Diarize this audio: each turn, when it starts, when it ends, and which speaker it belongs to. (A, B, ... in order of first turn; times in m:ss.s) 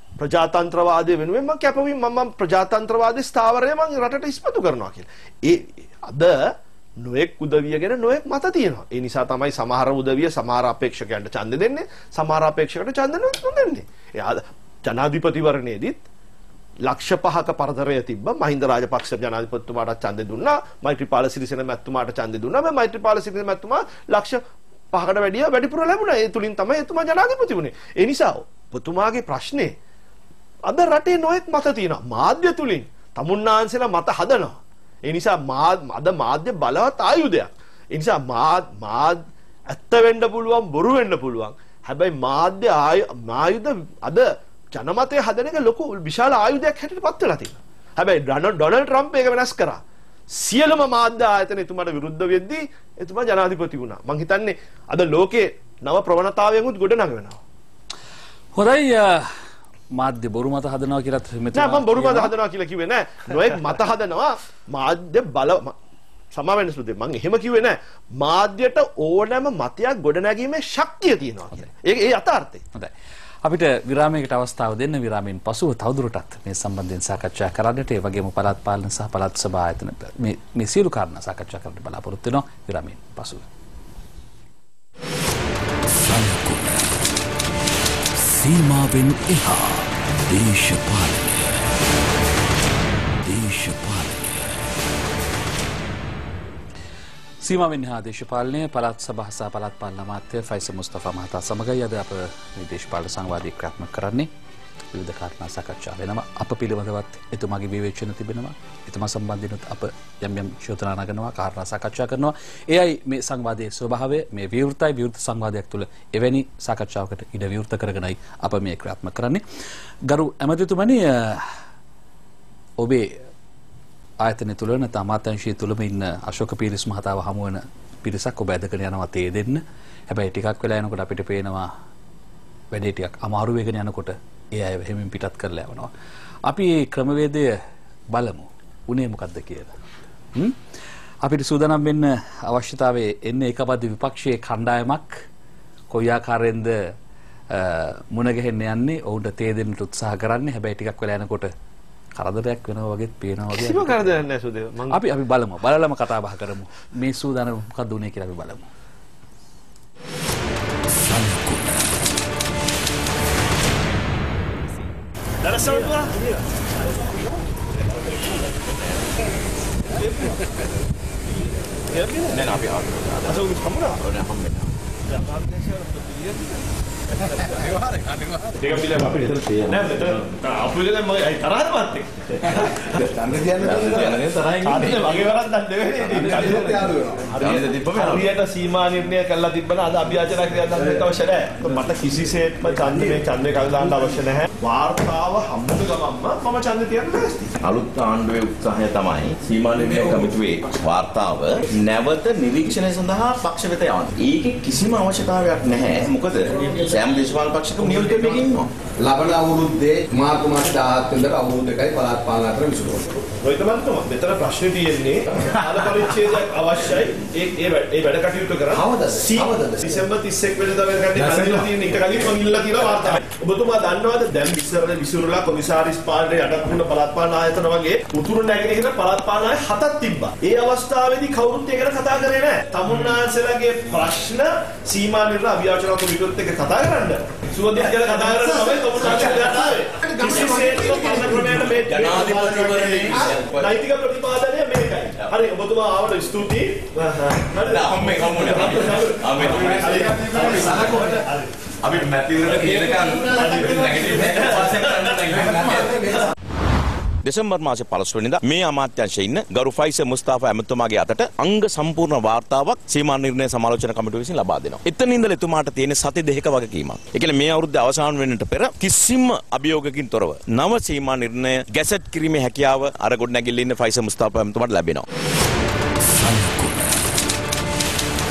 0:00.2-0:16.0 A
0:16.8-0:24.4 A
0:24.9-0:29.8 A
0:30.7-0:57.4 A
0:58.5-0:59.3 B
1:00.0-1:02.3 B
1:01.5-1:05.7 A
1:06.3-1:12.6 A
1:13.4-1:23.5 B
1:26.0-1:27.1 B
1:28.2-1:31.7 B
1:33.2-1:34.6 B
1:37.4-1:44.3 B
1:44.9-1:59.4 B
2:00.1-2:01.5 B
2:02.8-2:03.1 B
2:04.2-2:11.7 B
2:12.7-2:15.9 B
2:16.5-2:17.5 B
2:18.1-2:19.7 B
2:21.2-2:25.1 B
2:25.9-2:26.8 B
2:27.5-2:31.5 B
2:32.2-2:34.2 B
2:33.5-2:35.0 A
2:34.9-2:38.7 B
2:40.9-2:42.0 B
2:45.4-2:47.0 A
2:49.9-2:50.6 A
2:51.8-2:52.6 A
2:52.3-2:53.4 C
2:53.2-2:54.0 A
2:54.0-2:54.7 C
2:55.1-2:57.8 A
2:58.6-3:03.2 A
2:59.0-3:00.0 C
3:03.1-3:04.3 D
3:03.6-3:05.2 C
3:04.5-3:17.6 A
3:06.1-3:06.6 B
3:06.2-3:07.3 D
3:07.3-3:08.3 C
3:17.6-3:28.7 C
3:26.5-3:27.0 D
3:27.8-3:33.2 D
3:33.3-4:11.4 A
3:38.7-3:40.0 D
3:41.1-3:41.7 D
3:58.4-3:59.6 D
4:00.1-4:01.5 D
4:01.6-4:03.8 C
4:07.6-4:10.7 C
4:09.9-4:11.2 D
4:11.8-4:15.9 C
4:12.7-4:14.3 D
4:13.2-4:15.3 A
4:15.4-4:16.2 D
4:17.2-4:35.1 C
4:36.1-4:37.1 B